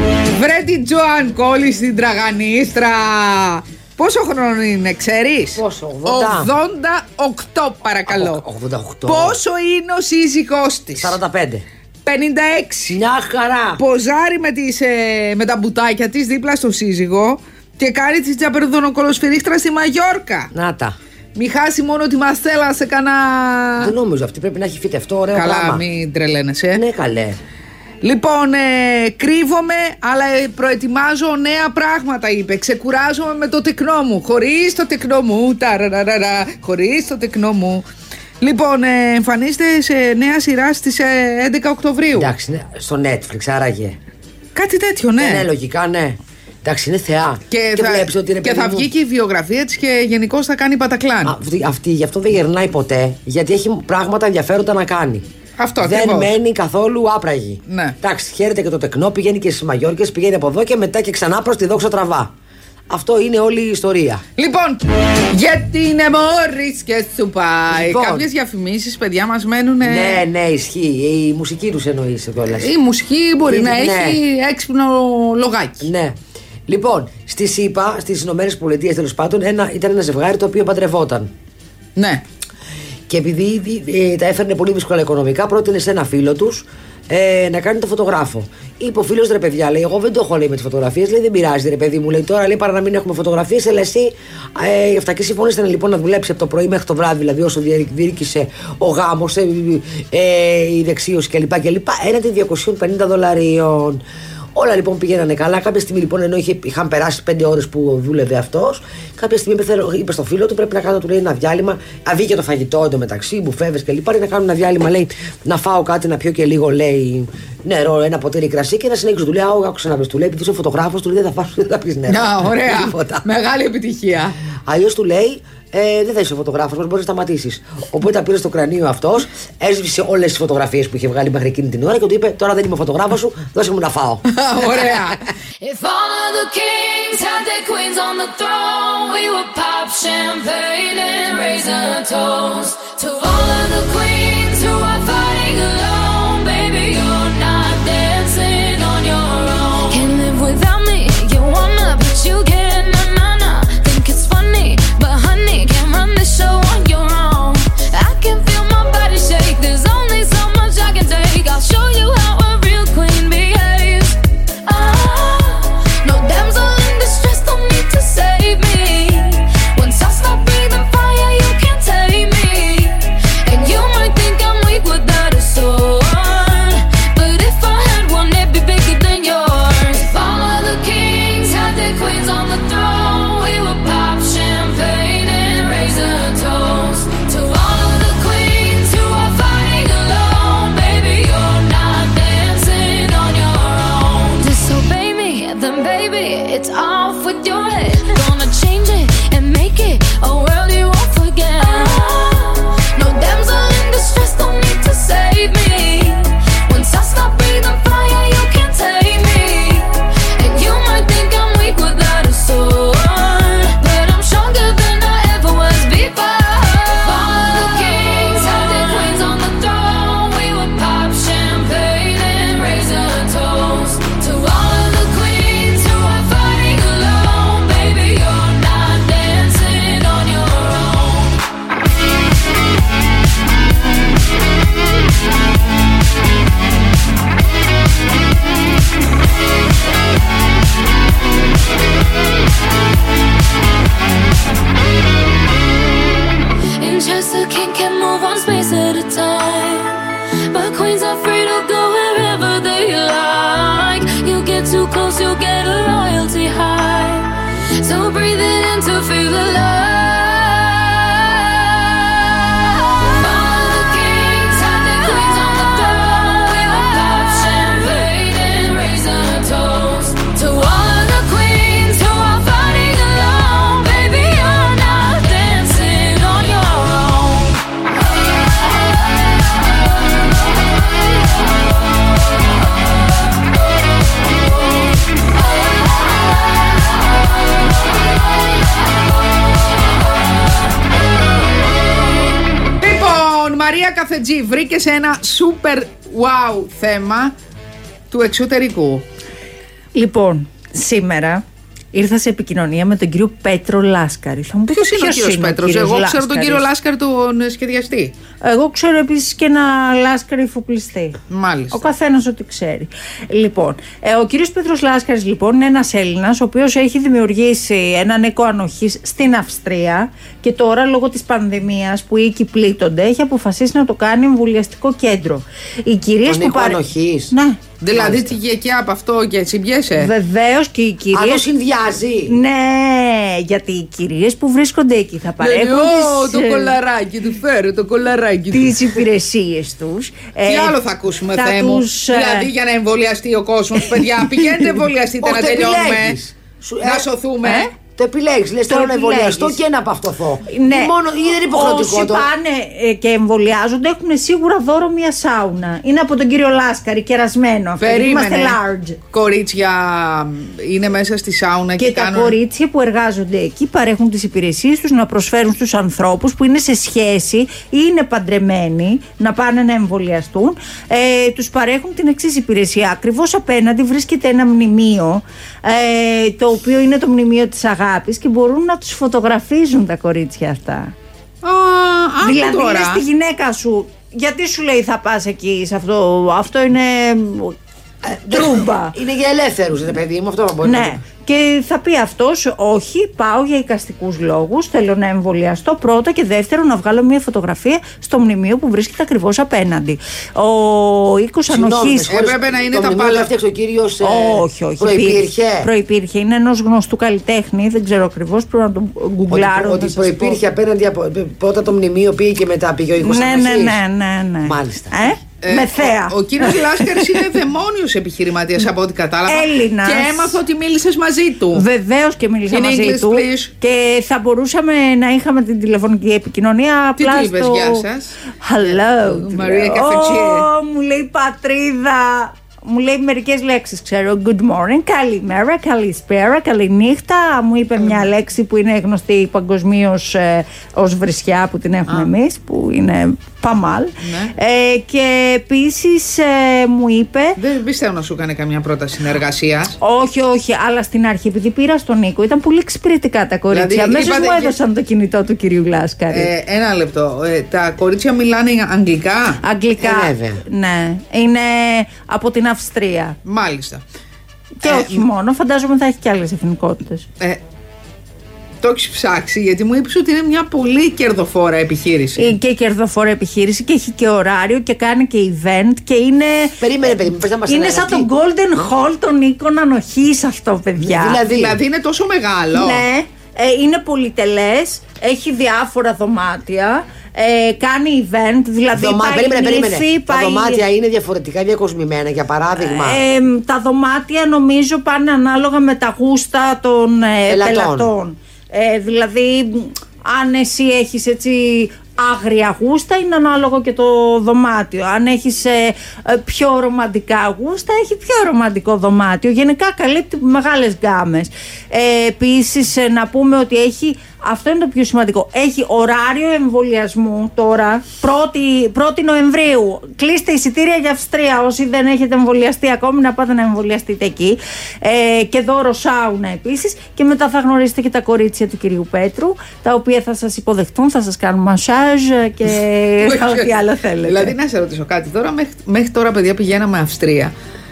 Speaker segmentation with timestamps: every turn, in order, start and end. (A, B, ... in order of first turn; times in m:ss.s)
0:00.3-0:08.4 A
0:05.6-0:06.5 B
0:08.1-0:09.4 B
0:09.1-0:11.2 A
0:11.0-0:11.6 B
0:12.1-0:13.0 A
0:12.9-0:13.8 B
0:13.8-0:20.5 A
0:20.5-0:21.0 B
0:21.4-0:24.0 A
0:23.8-0:25.8 B
0:25.3-0:26.8 A
0:26.7-0:27.4 B
0:28.0-0:37.8 A
0:38.4-0:42.3 A
0:42.2-0:44.0 B
0:44.6-0:45.5 A
0:45.2-0:48.9 B
0:47.5-0:51.4 A
0:51.2-0:55.3 B
0:55.6-0:56.4 A
0:55.8-1:02.3 B
0:57.7-0:58.0 A
1:02.9-1:04.2 B
1:04.4-1:10.2 A
1:07.7-1:08.3 B
1:09.8-1:12.7 B
1:12.5-1:15.9 A
1:13.4-1:14.2 B
1:15.8-1:16.2 B
1:16.7-1:21.3 B
1:22.0-1:22.2 A
1:23.1-1:44.0 B
1:44.6-2:03.2 B
2:02.1-2:04.4 A
2:04.7-2:15.2 B
2:14.3-2:15.2 A
2:15.6-3:51.4 C
4:06.8-4:37.6 C
4:52.8-4:57.4 A
4:58.1-4:59.0 A
5:00.0-5:06.7 D
5:04.7-5:08.1 A
5:08.4-5:11.2 D
5:11.3-5:11.9 A
5:11.7-5:27.6 D
5:26.2-5:27.3 B
5:27.8-5:30.1 A
5:27.9-5:28.4 B
5:29.9-5:31.4 D
5:31.1-5:32.4 B
5:32.3-5:36.8 D
5:35.4-5:39.0 A
5:38.5-5:40.8 D
5:40.5-5:46.2 A
5:41.3-5:42.5 D
5:45.2-5:47.1 B
5:46.8-5:47.7 A
5:47.4-5:47.7 D
5:47.9-5:52.3 B
5:48.7-5:49.6 D
5:50.5-5:50.9 D
5:51.5-5:59.0 D
5:57.8-5:58.6 A
5:59.1-6:02.4 A
6:01.8-6:20.9 D
6:21.4-6:23.0 A
6:22.2-6:27.6 D
6:28.0-6:31.0 B
6:28.3-6:29.0 D
6:30.6-6:42.1 D
6:41.5-6:45.7 B
6:42.0-6:43.3 A
6:44.0-6:50.4 D
6:49.3-6:53.8 B
6:53.0-6:57.2 D
6:54.4-6:55.1 B
6:55.4-7:01.6 A
6:59.3-7:00.4 D
7:01.5-7:07.8 D
7:02.5-7:03.5 A
7:07.0-7:10.5 A
7:08.4-7:27.4 D
7:24.0-7:24.3 A
7:27.4-7:29.8 A
7:29.8-7:36.3 D
7:33.5-7:34.6 A
7:36.1-7:39.4 A
7:39.4-7:43.2 D
7:39.8-7:40.4 B
7:43.2-7:43.8 A
7:44.6-7:47.1 D
7:44.6-7:45.0 A
7:48.6-7:52.3 A
7:52.2-7:56.6 D
7:56.6-7:58.1 B
7:57.5-8:01.2 D
8:00.8-8:01.6 B
8:01.3-8:02.8 A
8:02.5-8:10.7 D
8:08.7-8:13.0 B
8:12.6-8:54.4 D
8:17.3-8:17.9 B
8:53.0-8:53.5 A
8:54.0-8:57.3 A